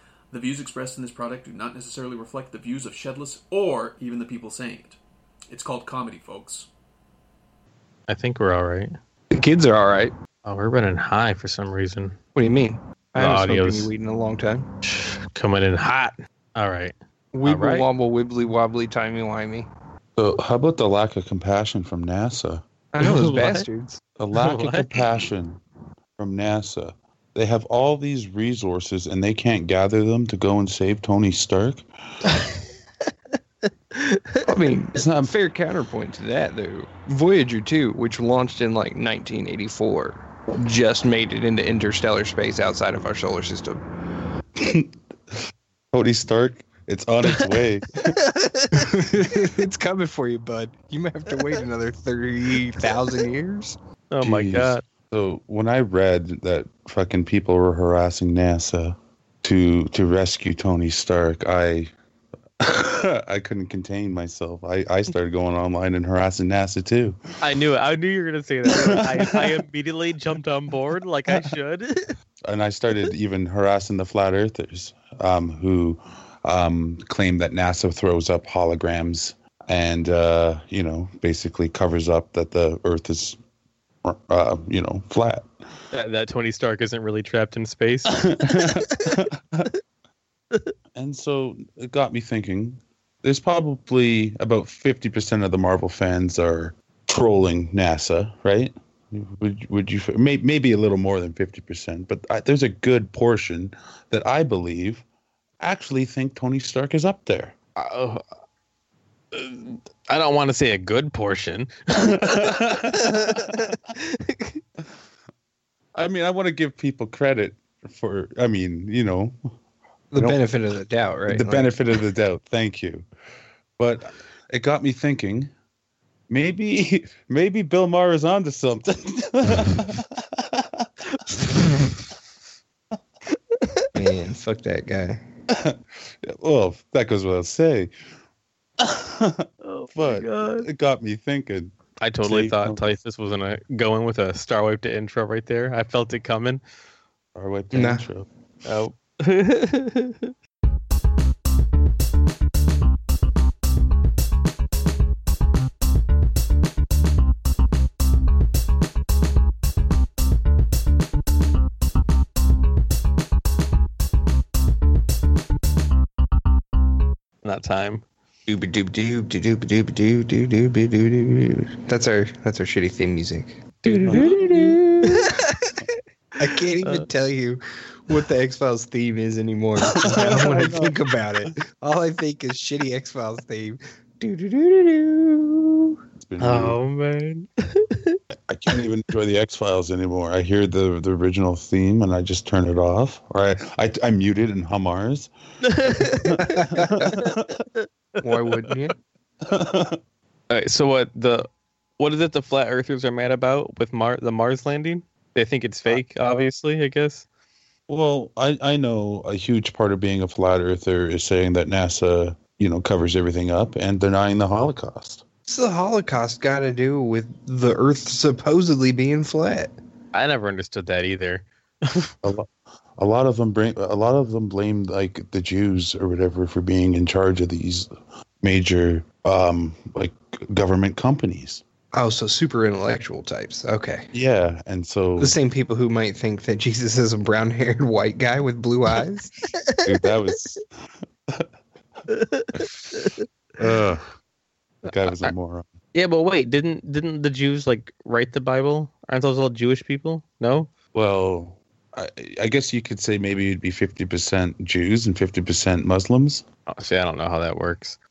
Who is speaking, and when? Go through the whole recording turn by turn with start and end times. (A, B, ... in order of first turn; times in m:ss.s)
0:00.3-0:05.0 A
0:05.5-0:06.7 A
0:08.1-0:08.9 B
0:09.3-0:10.1 C
0:10.4-0:12.1 B
0:12.3-0:14.6 C
0:13.2-0:13.9 B
0:14.8-0:16.9 B
0:17.3-0:19.7 C
0:17.4-0:17.8 B
0:20.2-0:22.6 D
0:22.9-0:24.0 C
0:23.0-0:23.6 B
0:24.2-0:25.6 D
0:24.3-0:25.0 B
0:26.2-0:31.8 D
0:32.3-0:32.5 B
0:33.9-0:34.4 B
0:34.4-0:43.8 C
0:34.9-0:35.3 D
0:44.6-0:44.9 D
0:45.9-0:48.1 D
0:48.2-0:48.8 B
0:48.7-0:53.8 C
0:54.1-0:54.8 B
0:54.2-1:01.9 D
1:02.6-1:07.2 D
1:07.4-1:12.1 B
1:08.7-1:09.5 D
1:12.4-1:23.4 D
1:24.0-1:25.5 D
1:25.9-1:29.2 B
1:28.1-1:29.7 D
1:30.9-1:45.0 D
1:45.6-1:47.5 D
1:47.8-1:48.2 B
1:49.3-1:54.6 B
1:52.0-1:53.7 D
1:55.9-1:59.5 D
2:00.1-2:01.7 C
2:00.1-2:00.4 D
2:01.3-2:03.0 D
2:03.8-2:05.5 D
2:06.3-2:10.8 D
2:13.9-2:15.2 C
2:15.5-2:17.9 D
2:18.8-2:22.8 D
2:19.6-2:20.6 B
2:22.0-2:26.6 B
2:27.3-2:28.2 D
2:27.7-2:28.1 C
2:28.6-2:30.3 B
2:47.4-2:48.0 B
2:48.5-2:55.4 C
2:53.8-2:54.4 B
2:54.0-2:54.7 D
2:56.4-3:06.0 C
3:00.0-3:01.5 D
3:06.2-3:06.8 D
3:06.4-3:08.2 B
3:08.5-3:15.3 D
3:15.6-3:16.5 B
3:15.9-3:17.5 D
3:16.4-3:17.1 C
3:18.2-3:19.0 C
3:19.4-3:20.0 D
3:20.5-3:21.5 B
3:22.0-3:27.2 B
3:27.9-3:35.2 D
3:35.5-3:39.7 C
3:40.1-3:42.1 B
3:42.2-3:47.9 D
3:48.4-3:51.6 D
3:51.9-3:54.1 C
3:54.1-3:55.4 D
3:55.2-3:59.3 C
3:59.8-4:00.6 D
4:02.1-4:03.2 B
4:02.5-4:04.0 D
4:04.8-4:05.7 D
4:05.1-4:05.3 B
4:05.9-4:10.7 B
4:10.9-4:16.4 D
4:16.7-4:18.0 B